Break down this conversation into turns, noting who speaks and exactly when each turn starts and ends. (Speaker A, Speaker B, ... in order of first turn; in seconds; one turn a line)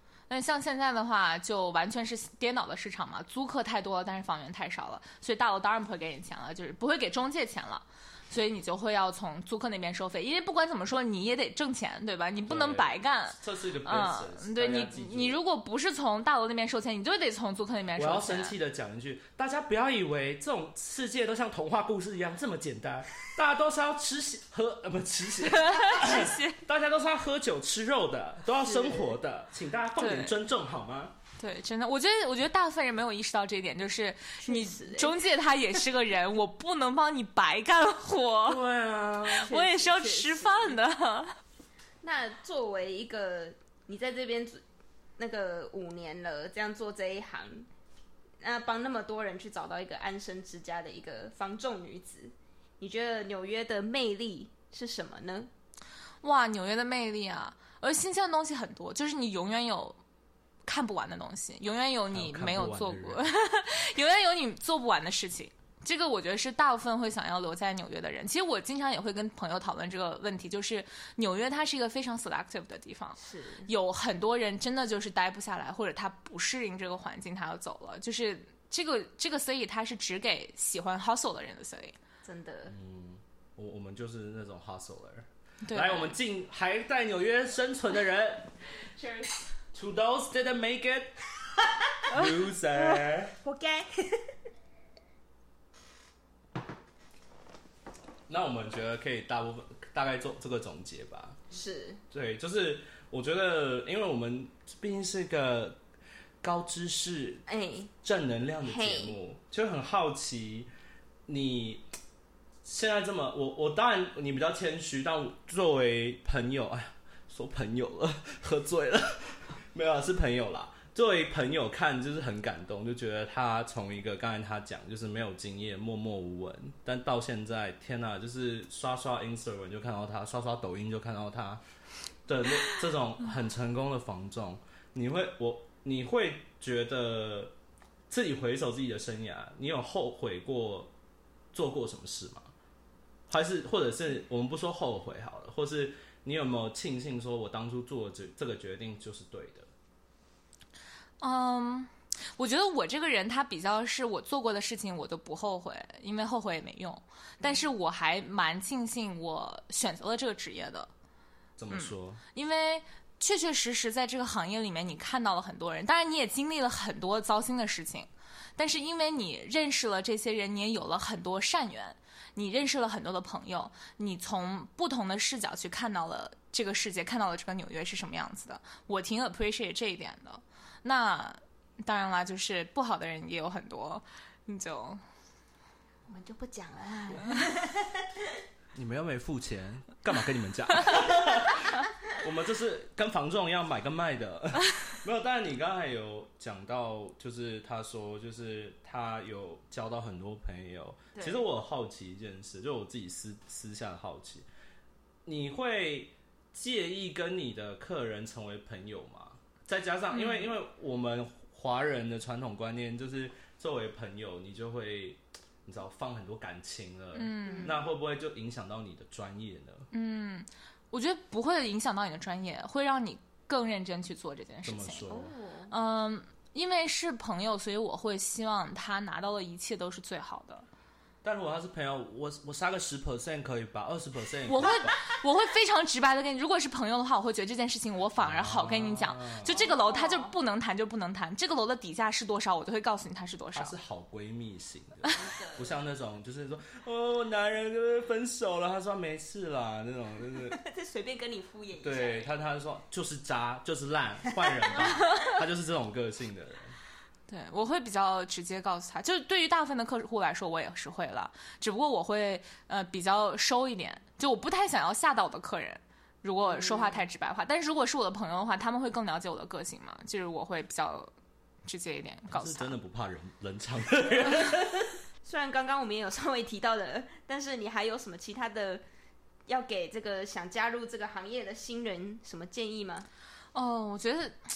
Speaker A: 0.3-18.6
Speaker B: 12.5-15.4
Speaker B: 18.0-31.1
Speaker A: 25.5-26.6
Speaker C: 28.6-29.2
Speaker A: 30.0-30.4
Speaker A: 31.4-38.6
Speaker C: 34.4-35.3
Speaker B: 38.5-39.5
Speaker A: 39.3-41.4
Speaker C: 39.4-40.8
Speaker C: 42.0-44.6
Speaker C: 45.2-47.7
Speaker C: 48.4-55.5
Speaker A: 56.2-60.0
Speaker A: 60.7-82.0
Speaker B: 62.1-63.3
Speaker C: 73.2-73.7
Speaker C: 82.2-82.7
Speaker B: 82.7-88.5
Speaker A: 85.6-86.1
Speaker C: 89.0-89.4
Speaker B: 89.7-91.2
Speaker B: 92.1-93.4
Speaker C: 92.9-94.3
Speaker B: 98.3-101.4
Speaker C: 101.5-102.0
Speaker B: 102.1-105.8
Speaker B: 106.4-107.4
Speaker C: 107.5-107.9
Speaker B: 108.0-110.7
Speaker C: 108.6-109.2
Speaker B: 111.3-111.8
Speaker B: 112.7-131.6
Speaker B: 132.3-137.5
Speaker B: 138.1-140.9
Speaker B: 141.5-142.5
Speaker B: 143.3-149.7
Speaker A: 151.2-160.9
Speaker B: 161.6-162.2
Speaker A: 161.7-185.0
Speaker C: 186.1-188.3
Speaker B: 188.8-204.5
Speaker C: 201.2-201.4
Speaker B: 205.2-219.9
Speaker A: 210.1-210.5
Speaker A: 217.2-217.8
Speaker C: 217.4-217.8
Speaker A: 219.9-225.1
Speaker B: 224.6-225.3
Speaker C: 225.1-225.7
Speaker A: 225.7-230.7
Speaker B: 231.2-235.0
Speaker A: 234.5-243.8
Speaker B: 238.2-239.6
Speaker C: 239.5-240.4
Speaker B: 243.5-250.6
Speaker C: 245.1-245.8
Speaker C: 250.5-252.3
Speaker B: 251.8-256.8
Speaker A: 257.3-271.1
Speaker C: 266.4-267.1
Speaker A: 271.6-272.8
Speaker B: 272.3-274.8
Speaker C: 275.2-278.8
Speaker C: 279.5-283.1
Speaker A: 283.5-284.4